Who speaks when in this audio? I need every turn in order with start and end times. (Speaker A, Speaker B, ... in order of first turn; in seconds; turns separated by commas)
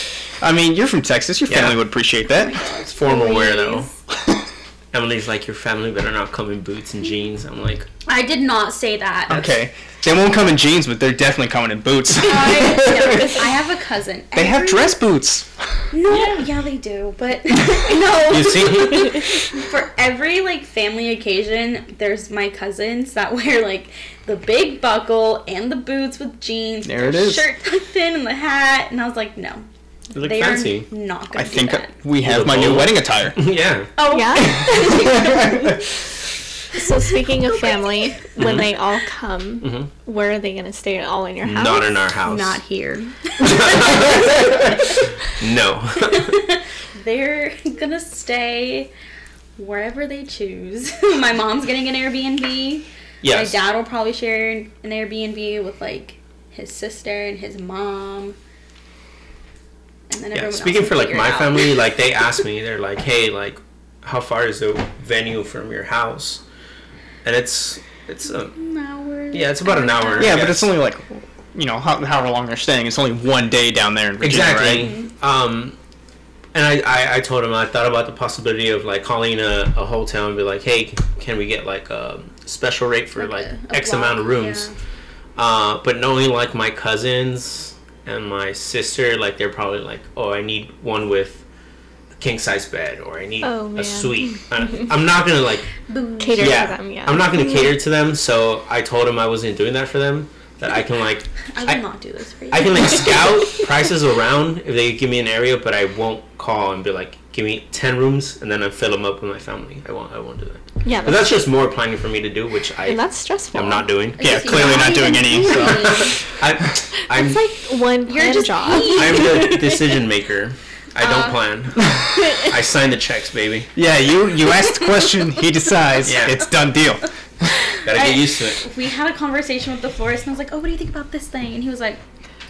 Speaker A: 0.4-2.6, Speaker B: 1.5-1.8, Speaker C: 2.3-3.9, Speaker B: 2.9-3.9, Speaker B: 4.9-7.9, Speaker C: 8.1-9.5, Speaker A: 9.3-13.4, Speaker C: 12.2-15.0, Speaker A: 14.3-15.5, Speaker C: 15.9-31.9, Speaker B: 18.2-19.3, Speaker A: 26.8-27.4, Speaker B: 30.1-30.9, Speaker A: 31.3-33.4, Speaker B: 32.2-33.9, Speaker C: 34.0-35.8, Speaker D: 34.0-35.4, Speaker A: 35.0-35.6, Speaker D: 36.7-42.0, Speaker C: 37.6-37.8, Speaker B: 38.4-38.7, Speaker B: 39.6-39.9, Speaker B: 41.4-42.6, Speaker C: 42.2-44.9, Speaker B: 43.4-44.5, Speaker B: 45.3-46.4, Speaker C: 46.1-48.9, Speaker C: 49.6-58.4, Speaker B: 53.2-53.5, Speaker C: 60.1-61.8, Speaker B: 60.3-66.4, Speaker B: 67.2-68.5, Speaker C: 68.5-70.4, Speaker B: 69.3-70.7, Speaker A: 70.2-74.9, Speaker B: 74.2-75.8, Speaker C: 74.8-75.1, Speaker B: 76.5-84.7, Speaker C: 83.2-84.7, Speaker B: 85.3-91.4, Speaker B: 92.2-95.7, Speaker D: 93.4-94.9, Speaker C: 95.9-96.7, Speaker D: 96.2-97.4, Speaker B: 96.4-101.8, Speaker C: 101.5-103.4, Speaker B: 102.5-117.5, Speaker D: 110.8-111.3, Speaker D: 112.8-113.9, Speaker C: 114.2-116.2, Speaker A: 114.2-116.1, Speaker D: 117.1-119.8, Speaker C: 118.0-119.6, Speaker B: 118.8-123.7, Speaker C: 121.0-121.4, Speaker A: 123.7-127.5, Speaker B: 126.0-126.4, Speaker B: 127.8-128.6, Speaker C: 127.9-132.0